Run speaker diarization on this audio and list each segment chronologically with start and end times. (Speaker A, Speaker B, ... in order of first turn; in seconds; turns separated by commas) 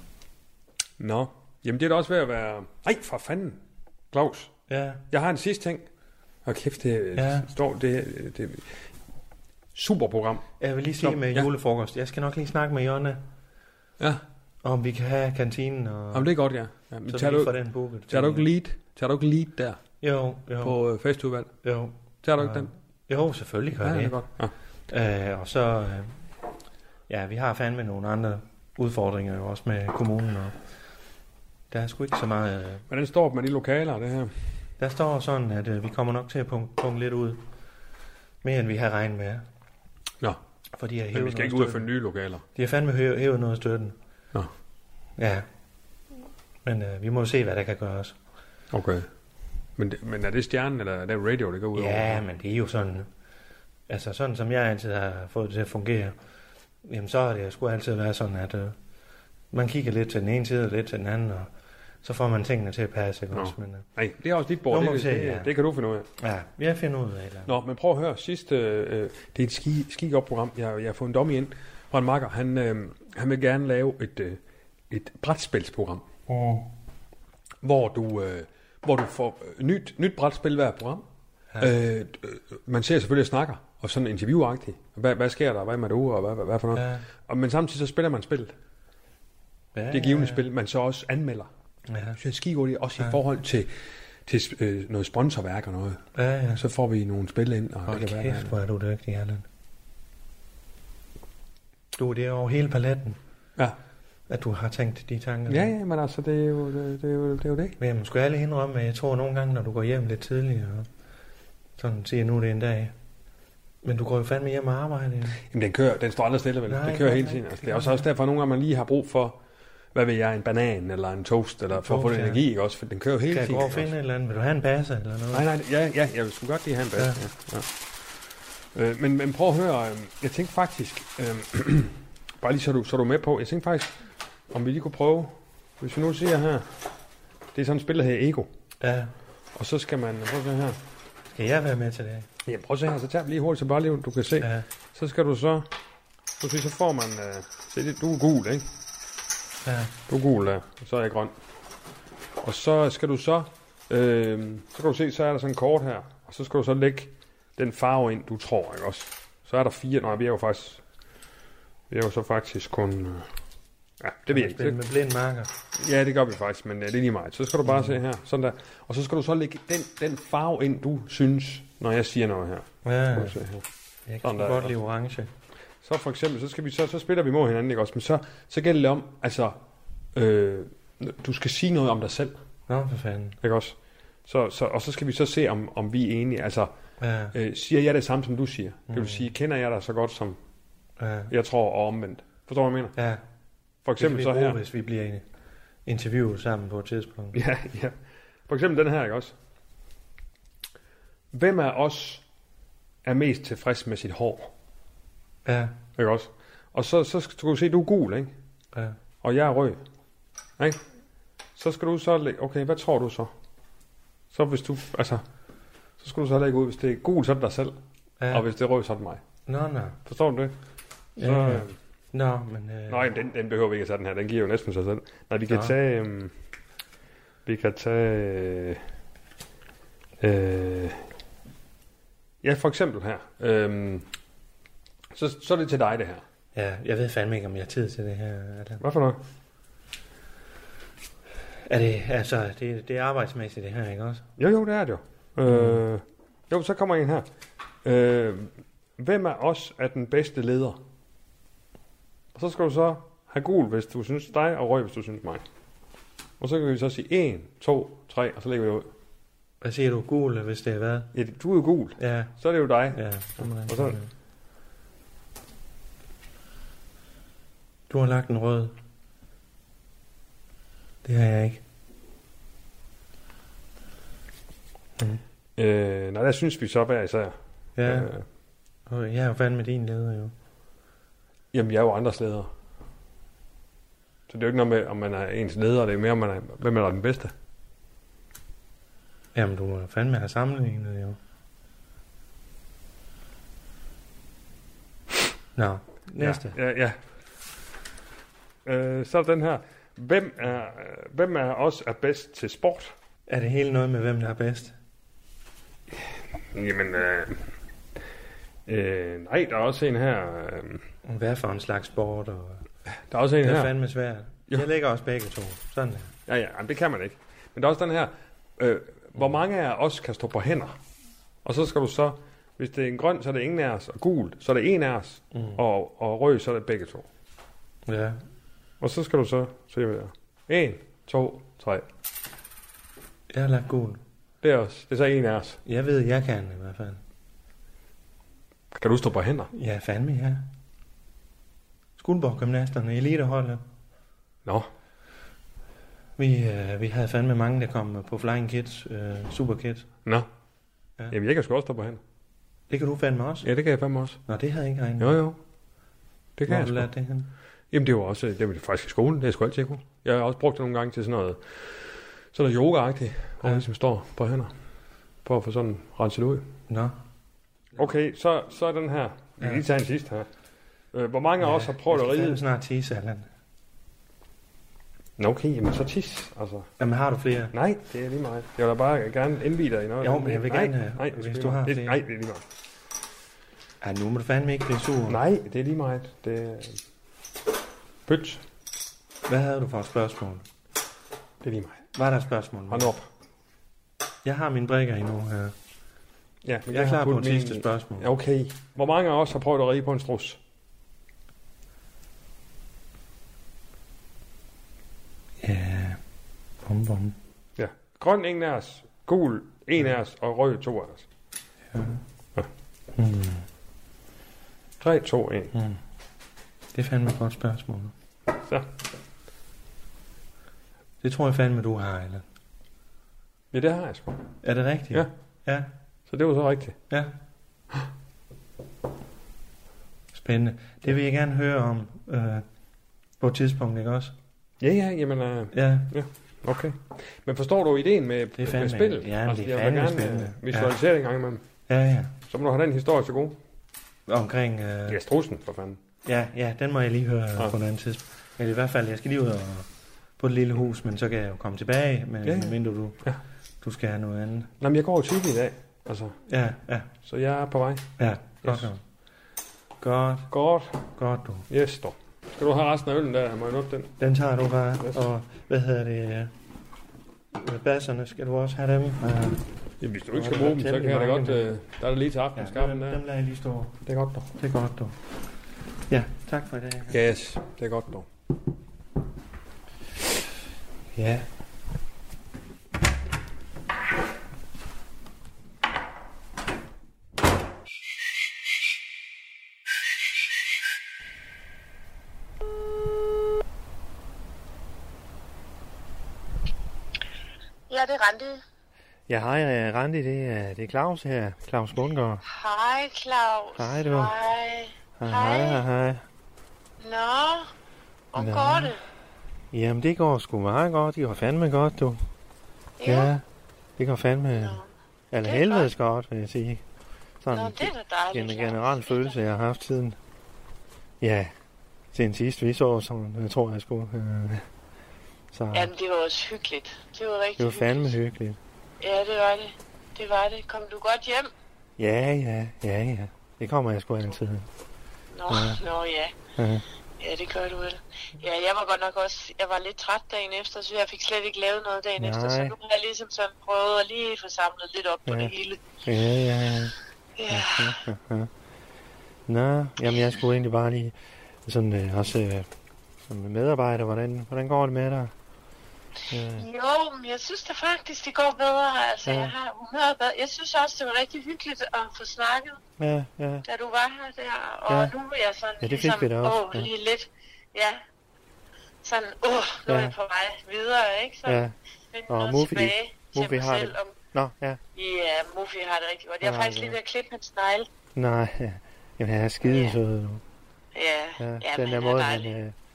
Speaker A: 1.0-3.6, Speaker A: 4.1-4.5, Speaker B: 4.7-5.0, Speaker A: 5.1-5.9, Speaker A: 6.5-8.7, Speaker B: 7.1-7.5, Speaker A: 9.7-10.5, Speaker B: 10.6-13.2, Speaker A: 11.0-11.5, Speaker B: 14.6-16.3, Speaker A: 16.1-17.5, Speaker B: 17.1-18.5, Speaker A: 18.1-19.8, Speaker B: 20.0-20.8, Speaker A: 20.6-21.5, Speaker B: 21.6-24.2, Speaker A: 22.2-22.7, Speaker A: 23.8-24.5, Speaker B: 24.9-26.1, Speaker B: 27.1-30.6, Speaker B: 31.7-32.8, Speaker A: 32.9-34.3, Speaker B: 34.8-37.4, Speaker B: 38.4-39.4, Speaker B: 40.7-41.9, Speaker A: 41.1-42.4, Speaker B: 42.5-44.0, Speaker B: 45.2-45.5, Speaker B: 46.6-48.2, Speaker A: 48.7-49.1, Speaker A: 49.8-52.2, Speaker B: 51.7-53.1, Speaker B: 53.9-56.1, Speaker B: 56.8-58.8, Speaker B: 59.5-61.5, Speaker B: 62.0-63.9, Speaker A: 63.3-66.1, Speaker B: 64.7-65.5, Speaker B: 66.2-67.5, Speaker A: 67.5-76.1, Speaker B: 76.3-76.7, Speaker A: 77.6-81.0, Speaker A: 81.6-88.5, Speaker B: 86.7-87.0, Speaker B: 89.7-90.4, Speaker A: 89.9-91.5, Speaker B: 91.9-92.2, Speaker A: 92.2-93.7, Speaker A: 94.2-96.0, Speaker B: 96.1-96.6, Speaker A: 96.5-98.5, Speaker B: 97.9-99.4, Speaker B: 101.9-103.2, Speaker B: 104.3-105.7, Speaker A: 105.5-107.8, Speaker B: 107.8-110.9, Speaker B: 111.8-112.9, Speaker B: 113.8-115.4, Speaker A: 115.5-119.4, Speaker B: 116.7-118.0, Speaker A: 119.9-123.9, Speaker B: 121.7-122.4, Speaker B: 123.3-125.5, Speaker A: 125.3-127.7, Speaker A: 128.7-134.0, Speaker A: 134.5-136.7, Speaker A: 137.5-138.5, Speaker B: 138.8-139.1, Speaker A: 139.5-140.8, Speaker B: 141.3-142.3, Speaker A: 142.4-145.7, Speaker B: 144.4-144.6, Speaker A: 146.4-148.7, Speaker B: 149.6-149.9, Speaker A: 150.1-151.3, Speaker A: 152.4-160.8, Speaker A: 161.9-163.3, Speaker A: 164.0-164.8, Speaker B: 164.3-165.5, Speaker A: 165.7-173.6, Speaker B: 167.6-168.0, Speaker B: 172.8-173.4, Speaker B: 174.1-175.3, Speaker A: 174.2-174.7, Speaker A: 175.8-179.6, Speaker A: 180.1-182.4, Speaker B: 182.7-183.4, Speaker A: 183.4-186.7, Speaker B: 187.0-187.3, Speaker A: 187.3-190.4, Speaker B: 188.9-189.2, Speaker B: 191.0-191.3, Speaker A: 191.3-192.9, Speaker B: 192.9-193.2, Speaker A: 193.8-194.6, Speaker B: 194.0-195.2, Speaker B: 195.8-197.4, Speaker A: 197.3-197.9, Speaker A: 198.5-199.3, Speaker A: 201.3-202.2, Speaker A: 203.0-204.5, Speaker B: 205.4-205.8, Speaker A: 206.0-208.3, Speaker A: 209.2-209.8, Speaker A: 211.6-213.3, Speaker A: 214.3-215.2, Speaker A: 216.0-217.8, Speaker B: 218.2-218.4, Speaker A: 218.3-219.2, Speaker B: 219.5-220.0, Speaker A: 220.1-220.5, Speaker B: 221.2-223.1, Speaker A: 221.2-221.8, Speaker A: 222.9-226.3, Speaker B: 225.5-225.7, Speaker A: 227.4-228.8, Speaker A: 230.2-231.0, Speaker A: 232.4-234.1, Speaker A: 235.1-236.2, Speaker B: 236.5-238.8, Speaker A: 238.8-239.2, Speaker B: 241.6-244.2, Speaker A: 244.4-247.2, Speaker B: 245.4-245.8, Speaker A: 247.8-250.8, Speaker A: 252.3-255.4, Speaker A: 256.4-258.9, Speaker B: 259.6-261.1, Speaker A: 261.1-264.0, Speaker B: 262.0-262.3, Speaker B: 262.9-264.1, Speaker B: 267.9-268.8, Speaker B: 271.0-271.6, Speaker A: 275.6-278.2, Speaker B: 277.8-278.1, Speaker B: 278.9-280.3, Speaker A: 281.5-282.5, Speaker A: 284.3-287.3, Speaker B: 289.3-291.2, Speaker B: 295.6-296.6, Speaker A: 296.2-296.9, Speaker A: 298.6-302.9, Speaker B: 303.3-304.7, Speaker A: 306.5-307.4, Speaker A: 308.6-310.8, Speaker B: 311.0-312.6, Speaker A: 313.1-313.7, Speaker B: 313.4-316.1, Speaker A: 316.3-320.8, Speaker A: 321.4-327.1, Speaker B: 325.3-325.6, Speaker B: 327.9-328.2, Speaker A: 328.8-331.9, Speaker B: 333.3-334.0, Speaker A: 334.4-335.6, Speaker B: 335.6-337.0, Speaker A: 338.7-339.5, Speaker B: 339.5-340.4, Speaker B: 342.0-343.6, Speaker A: 344.4-344.7, Speaker B: 346.2-349.9, Speaker A: 351.1-352.0, Speaker B: 352.7-353.5, Speaker A: 353.4-354.2, Speaker B: 354.2-355.2, Speaker A: 355.0-355.4, Speaker A: 356.4-356.9, Speaker B: 356.5-357.3, Speaker A: 357.7-364.5, Speaker A: 365.2-366.5, Speaker B: 366.7-366.9, Speaker A: 367.8-370.3, Speaker A: 370.9-372.4, Speaker B: 371.4-373.3, Speaker A: 375.2-376.7, Speaker B: 376.8-377.5, Speaker A: 377.5-382.4, Speaker B: 380.0-382.0, Speaker B: 383.8-385.2, Speaker A: 385.1-386.8, Speaker A: 388.1-388.4, Speaker B: 389.3-390.4, Speaker A: 391.4-391.8, Speaker B: 391.9-392.9, Speaker A: 392.7-393.1, Speaker B: 394.2-395.5, Speaker A: 396.4-400.4, Speaker B: 396.7-398.1, Speaker B: 405.4-406.0, Speaker B: 406.6-407.2, Speaker A: 407.6-411.1, Speaker B: 411.7-412.0, Speaker B: 412.9-413.4, Speaker A: 414.8-415.5, Speaker B: 415.5-415.8, Speaker B: 416.7-417.9, Speaker A: 418.3-418.7, Speaker B: 421.0-422.2, Speaker A: 423.5-424.2, Speaker B: 424.4-425.7, Speaker A: 426.1-426.8, Speaker B: 430.1-432.4, Speaker B: 433.2-434.1, Speaker A: 434.6-441.4, Speaker B: 435.5-435.9, Speaker B: 438.4-440.7, Speaker B: 441.7-442.1, Speaker A: 442.3-443.4, Speaker B: 444.1-445.0, Speaker A: 444.9-445.8, Speaker B: 446.0-453.0, Speaker A: 452.2-453.2, Speaker B: 453.6-454.5, Speaker A: 454.6-456.2, Speaker B: 456.2-456.9, Speaker A: 457.0-457.9, Speaker B: 458.0-458.8, Speaker A: 458.4-458.7, Speaker B: 459.8-460.3, Speaker A: 460.3-460.9, Speaker B: 460.9-461.5, Speaker A: 461.5-464.0, Speaker B: 464.0-466.3, Speaker B: 467.3-469.4, Speaker A: 469.8-473.0, Speaker B: 470.1-471.5, Speaker B: 472.4-473.8, Speaker A: 473.9-474.3, Speaker B: 474.4-475.0, Speaker B: 475.9-477.0, Speaker A: 476.9-478.1, Speaker B: 480.9-481.3, Speaker C: 497.7-498.4, Speaker B: 499.1-502.2, Speaker C: 502.2-505.6, Speaker B: 503.6-504.2, Speaker B: 505.0-506.0, Speaker C: 506.8-507.5, Speaker C: 508.1-508.8, Speaker B: 508.1-508.8, Speaker B: 509.5-512.0, Speaker C: 512.8-513.1, Speaker B: 512.8-513.2, Speaker B: 513.8-514.6, Speaker C: 514.3-514.7, Speaker B: 515.1-516.6, Speaker C: 515.2-515.7, Speaker B: 517.2-520.0, Speaker C: 517.3-519.2, Speaker B: 521.0-521.3, Speaker B: 521.9-524.5, Speaker B: 525.3-525.7, Speaker C: 525.5-527.9, Speaker B: 527.4-528.4, Speaker C: 528.8-531.3, Speaker B: 531.8-534.5, Speaker C: 535.1-536.1, Speaker B: 535.3-535.6, Speaker B: 536.4-536.6, Speaker C: 537.0-545.7, Speaker B: 542.0-542.5, Speaker B: 545.0-545.3, Speaker B: 545.8-546.7, Speaker C: 547.2-547.8, Speaker B: 547.3-548.3, Speaker B: 549.3-552.5, Speaker B: 553.1-555.1, Speaker B: 556.1-556.5, Speaker C: 556.3-562.6, Speaker B: 559.0-559.3, Speaker B: 562.8-563.5, Speaker C: 563.5-567.8, Speaker B: 564.7-564.9, Speaker B: 565.6-566.7, Speaker C: 568.8-574.0, Speaker B: 569.7-570.0, Speaker B: 571.2-571.5, Speaker B: 572.1-574.6, Speaker C: 574.7-577.7, Speaker B: 576.2-576.8, Speaker B: 578.0-580.2, Speaker C: 579.4-579.8, Speaker C: 580.7-582.3, Speaker B: 581.2-582.5